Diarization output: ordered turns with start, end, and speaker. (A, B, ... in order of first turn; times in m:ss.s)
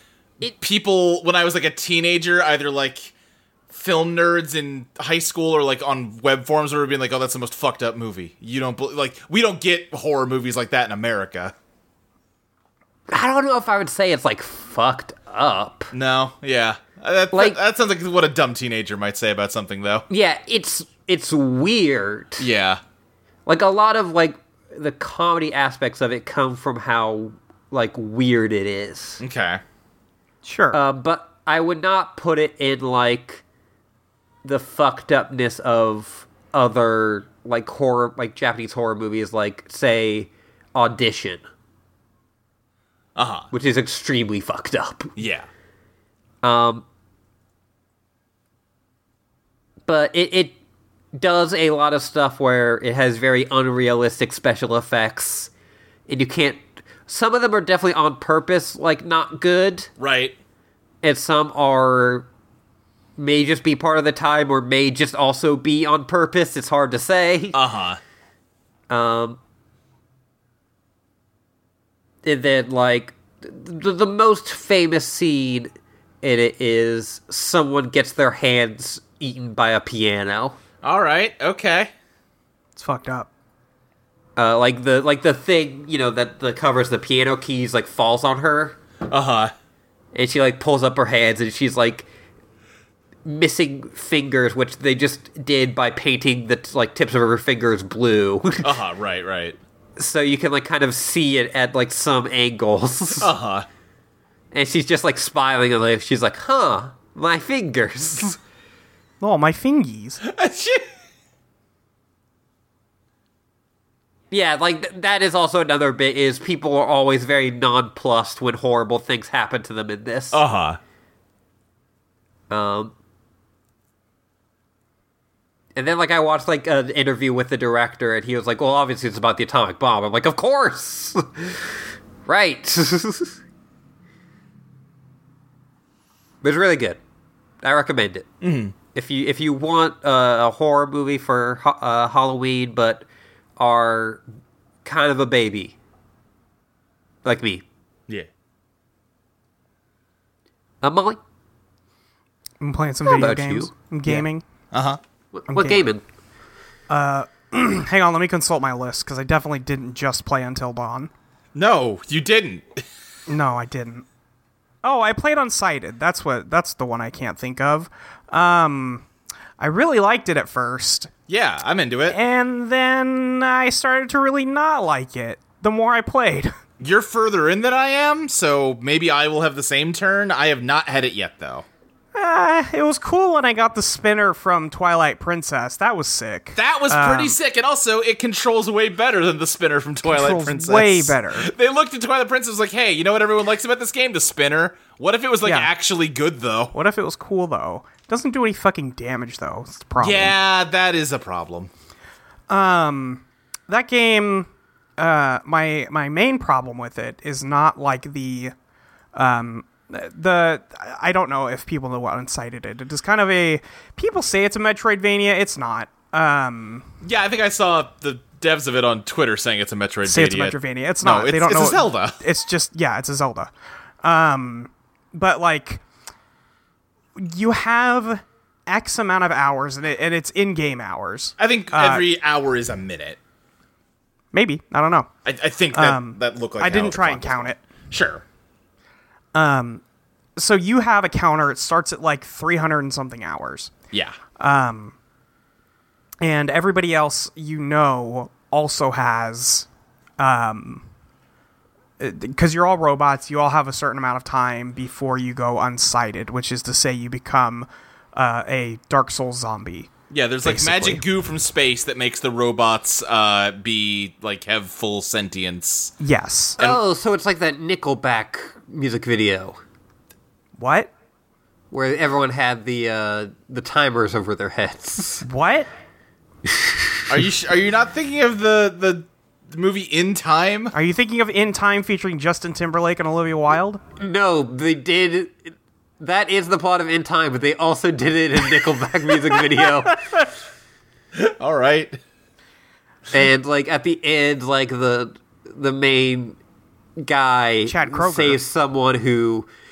0:00.4-0:03.1 A
0:03.7-0:11.6 A
0:13.1-0:15.9 B
0:15.9-0:20.0 A
0:17.3-0:17.6 B
0:20.1-0:22.5 B
0:22.4-0:22.8 A
0:23.5-0:29.2 B
0:29.2-0:29.6 A
0:30.4-0:30.8 C
0:30.7-0:33.4 B
0:34.4-0:41.4 B
0:43.2-0:43.5 A
0:43.5-0:45.1 B
0:45.2-0:45.5 A
0:46.4-0:46.8 B
0:49.9-0:50.6 B
0:51.1-0:55.5 B
0:56.1-0:59.9 B
1:00.0-1:00.4 A
1:01.0-1:02.3 B
1:03.2-1:07.6 B
1:07.5-1:08.0 A
1:08.9-1:09.4 B
1:12.2-1:15.7 B
1:16.2-1:20.6 B
1:20.8-1:21.9 A
1:22.8-1:23.3 C
1:24.4-1:28.8 B
1:29.1-1:29.5 A
1:30.1-1:32.1 B
1:33.2-1:38.7 B
1:38.6-1:39.6 A
1:40.0-1:43.3 B
1:43.2-1:43.7 A
1:44.5-1:48.4 B
1:49.2-1:50.2 C
1:50.2-1:50.9 A
1:54.3-2:00.4 B
2:00.3-2:00.8 A
2:02.5-2:02.9 B
2:05.8-2:11.7 B
2:12.3-2:13.4 B
2:16.4-2:17.0 B
2:17.6-2:18.3 B
2:18.4-2:18.7 A
2:18.9-2:23.1 B
2:23.6-2:24.2 B
2:24.8-2:25.8 B
2:27.2-2:27.6 B
2:30.8-2:31.2 B
2:32.6-2:34.4 C
2:33.0-2:34.3 B
2:34.7-2:35.0 A
2:35.4-2:36.0 B
2:35.5-2:35.8 C
2:36.9-2:41.1 C
2:41.6-2:42.8 A
2:43.3-2:44.0 C
2:44.8-2:49.1 C
2:49.6-2:51.1 C
2:51.3-2:52.2 A
2:52.1-2:56.5 C
2:56.8-3:01.7 A
3:02.1-3:07.4 C
3:06.6-3:16.7 A
3:10.0-3:11.5 C
3:15.4-3:15.7 C
3:16.7-3:20.4 C
3:20.0-3:21.7 A
3:22.5-3:28.5 C
3:29.2-3:36.9 C
3:37.0-3:42.2 A
3:40.1-3:43.5 C
3:44.0-3:45.8 C
3:47.2-3:52.0 C
3:51.4-3:53.2 A
3:54.3-3:55.1 C
3:55.2-3:58.2 A
3:55.7-3:57.6 C
3:59.3-3:59.8 C
4:00.4-4:03.7 C
4:03.9-4:04.2 A
4:04.4-4:05.0 C
4:06.2-4:09.7 C
4:10.2-4:10.9 C
4:12.0-4:19.9 C
4:20.1-4:25.9 A
4:20.4-4:21.0 C
4:26.0-4:26.6 C
4:26.6-4:29.6 B
4:30.6-4:30.9 C
4:31.7-4:35.2 B
4:35.2-4:35.7 C
4:36.4-4:37.0 B
4:37.1-4:40.7 A
4:40.7-4:43.8 C
4:44.0-4:50.0 B
4:51.2-4:52.0 A
4:53.1-4:56.4 B
4:57.0-4:59.5 B
4:57.7-4:58.4 C